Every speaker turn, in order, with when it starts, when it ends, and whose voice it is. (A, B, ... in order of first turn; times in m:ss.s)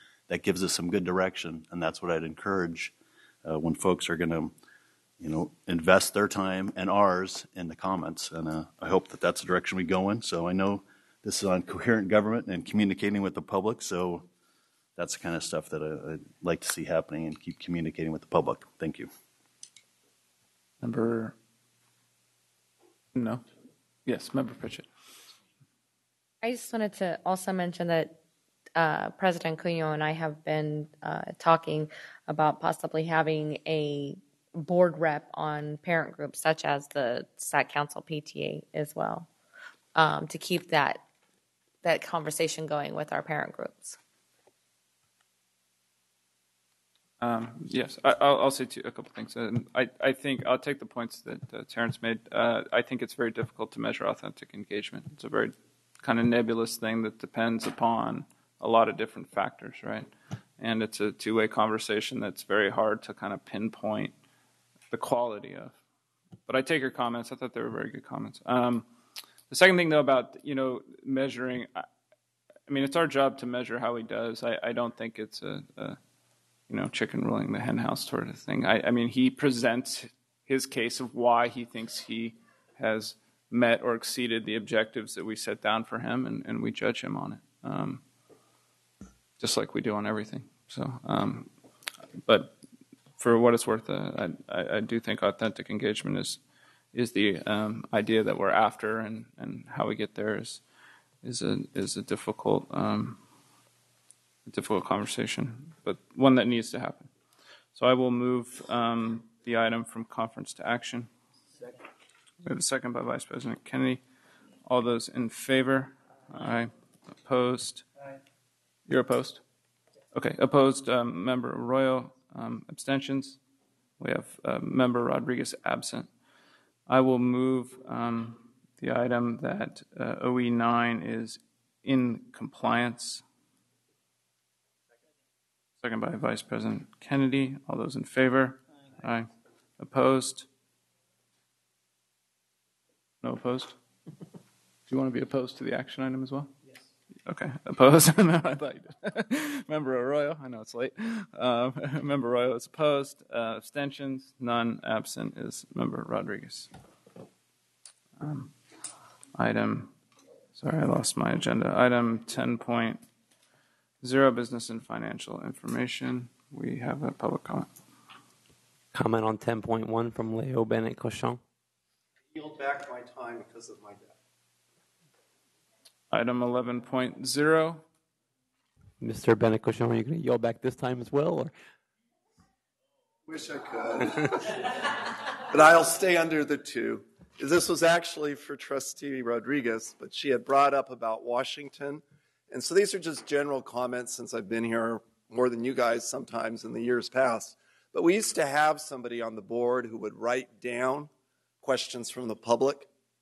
0:00.3-0:02.9 A
0:03.4-0:04.5 A
0:05.2-0:14.3 A
0:15.0-0:19.1 A
0:20.8-0:21.4 B
0:23.2-0:23.4 B
0:24.1-0:24.9 B
0:26.4-0:28.2 C
0:28.8-0:39.3 C
0:40.0-0:41.0 C
0:41.8-0:44.0 C
0:47.2-1:04.1 B
1:04.9-1:05.8 B
1:06.5-1:08.9 B
1:09.5-1:11.9 B
1:12.7-1:16.0 B
1:16.7-1:28.0 B
1:29.4-1:31.5 B
1:32.2-1:32.6 B
1:33.2-1:36.4 B
1:36.9-1:40.6 B
1:41.2-1:43.2 B
1:44.5-1:47.1 B
1:47.7-1:51.1 B
1:52.4-1:54.0 B
1:54.6-1:57.9 B
1:58.9-1:59.4 B
2:00.1-2:03.4 B
2:04.0-2:06.1 B
2:06.9-2:13.2 B
2:15.8-2:20.5 B
2:23.2-2:23.8 B
2:24.9-2:26.5 B
2:27.3-2:36.7 B
2:38.2-2:38.5 B
2:39.4-2:39.9 B
2:40.6-2:43.0 B
2:44.0-2:47.7 B
2:48.9-2:51.4 D
2:52.3-2:54.2 E
2:56.1-2:57.8 B
2:59.0-3:01.5 D
3:03.3-3:21.1 E
3:21.6-3:22.9 E